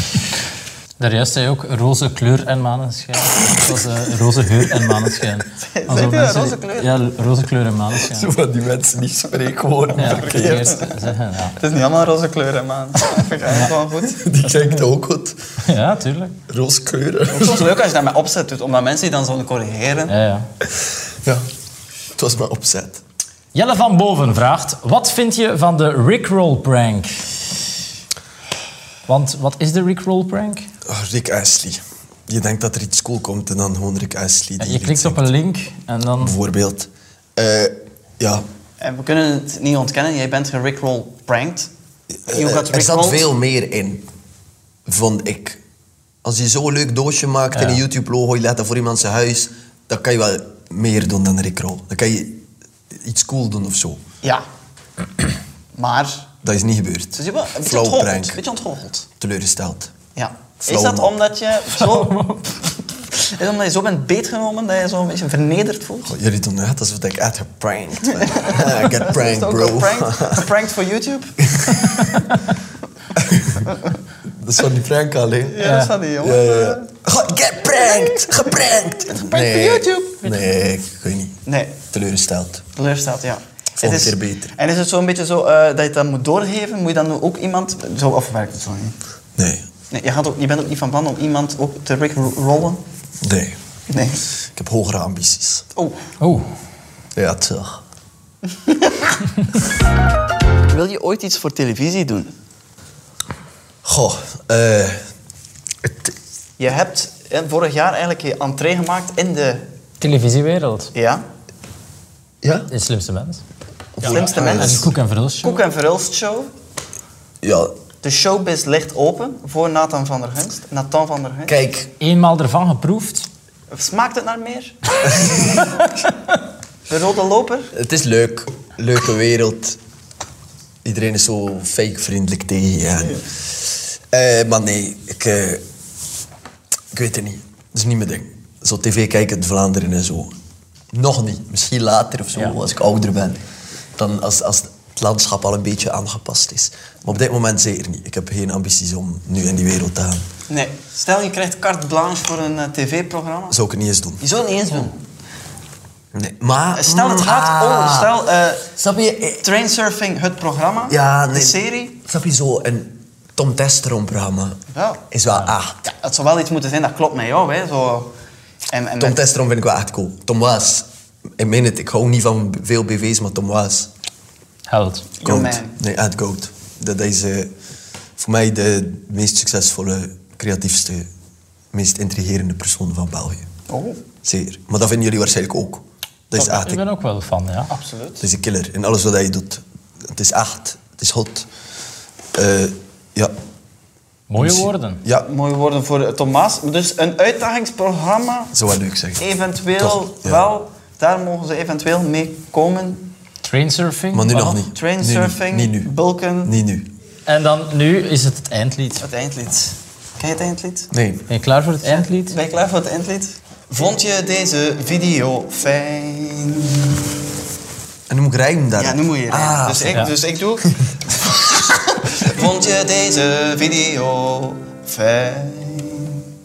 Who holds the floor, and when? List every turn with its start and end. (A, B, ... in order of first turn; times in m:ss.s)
0:01.0-0:08.3 A
0:05.6-0:07.0 B
0:08.1-0:10.7 C
0:09.9-0:14.3 B
0:10.0-0:11.6 A
0:14.2-0:15.4 C
0:15.6-0:16.4 A
0:16.5-0:17.7 C
0:17.3-0:20.2 B
0:20.1-0:20.5 A
0:22.2-0:23.0 C
0:23.5-0:27.2 A
0:29.1-0:30.7 A
0:30.8-0:35.3 C
0:34.6-0:36.4 A
0:36.2-0:38.4 C
0:38.8-0:41.7 B
0:42.3-0:44.0 C
0:42.3-0:43.3 B
0:44.9-0:45.6 C
0:46.2-0:54.0 C
0:47.6-0:47.8 A
0:55.8-0:56.3 B
0:56.4-0:58.4 C
0:57.2-0:59.1 B
0:59.2-0:59.9 C
1:00.2-1:02.2 B
1:00.6-1:01.2 C
1:01.7-1:02.6 A
1:03.1-1:06.2 B
1:06.1-1:10.5 C
1:08.1-1:11.5 B
1:11.4-1:12.3 C
1:12.0-1:12.6 A
1:13.2-1:21.4 C
1:15.5-1:16.8 B
1:15.6-1:16.0 A
1:17.8-1:18.2 B
1:19.1-1:20.2 B
1:21.5-1:21.8 B
1:21.9-1:22.7 C
1:22.8-1:29.0 B
1:23.8-1:24.5 C
1:29.4-1:29.6 C
1:29.9-1:32.8 B
1:33.2-1:33.6 C
1:33.9-1:34.2 B
1:34.6-1:35.6 C
1:36.2-1:36.5 A
1:37.2-1:37.8 C
1:38.6-1:39.1 B
1:40.7-1:42.3 B
1:43.8-1:45.0 C
1:45.8-1:46.1 C
1:46.6-1:49.6 B
1:50.0-1:50.9 A
1:51.0-1:51.2 B
1:52.4-1:52.7 C
1:52.7-1:53.4 A
1:54.0-1:54.9 C
1:54.0-1:54.9 B
1:54.1-1:55.6 A
1:55.4-1:56.5 B
1:57.4-1:57.7 C
1:58.0-2:01.6 B
2:01.5-2:01.9 C
2:02.0-2:03.3 A
2:03.7-2:05.6 B
2:05.1-2:05.4 C
2:05.6-2:05.9 A
2:06.9-2:07.7 B
2:07.7-2:09.8 C
2:10.8-2:15.6 C
2:16.9-2:20.3 C
2:20.9-2:23.4 C
2:24.0-2:30.2 C
2:30.5-2:33.6 B
2:33.5-2:34.2 C
2:34.2-2:35.0 B
2:36.1-2:38.1 C
2:36.8-2:38.7 B
2:38.8-2:39.5 C
2:39.4-2:41.9 B
2:40.9-2:44.6 C
2:44.7-2:45.0 B
2:45.1-2:45.8 C
2:45.8-2:48.1 B
2:48.7-2:49.2 B
2:49.0-2:50.9 C
2:51.4-2:53.9 C
2:54.7-2:55.1 A
2:55.2-2:55.8 B
2:55.2-2:57.5 C
2:58.2-3:01.1 C
3:01.7-3:03.5 C
3:03.7-3:04.0 B
3:04.2-3:06.8 C
3:06.4-3:07.7 A
3:07.7-3:08.2 B
3:08.2-3:11.5 C
3:12.3-3:13.3 C
3:14.3-3:15.0 A
3:14.4-3:15.3 C
3:15.2-3:18.6 B
3:18.5-3:19.2 C
3:19.2-3:23.1 B
3:19.8-3:20.4 C
3:23.4-3:24.6 A
3:24.1-3:25.9 C
3:24.7-3:26.6 B
3:26.4-3:26.9 C
3:27.3-3:29.0 A
3:29.0-3:30.9 B
3:30.9-3:31.3 C
3:31.3-3:32.4 A
3:31.8-3:36.9 B
3:38.1-3:40.1 C
3:38.8-3:46.2 B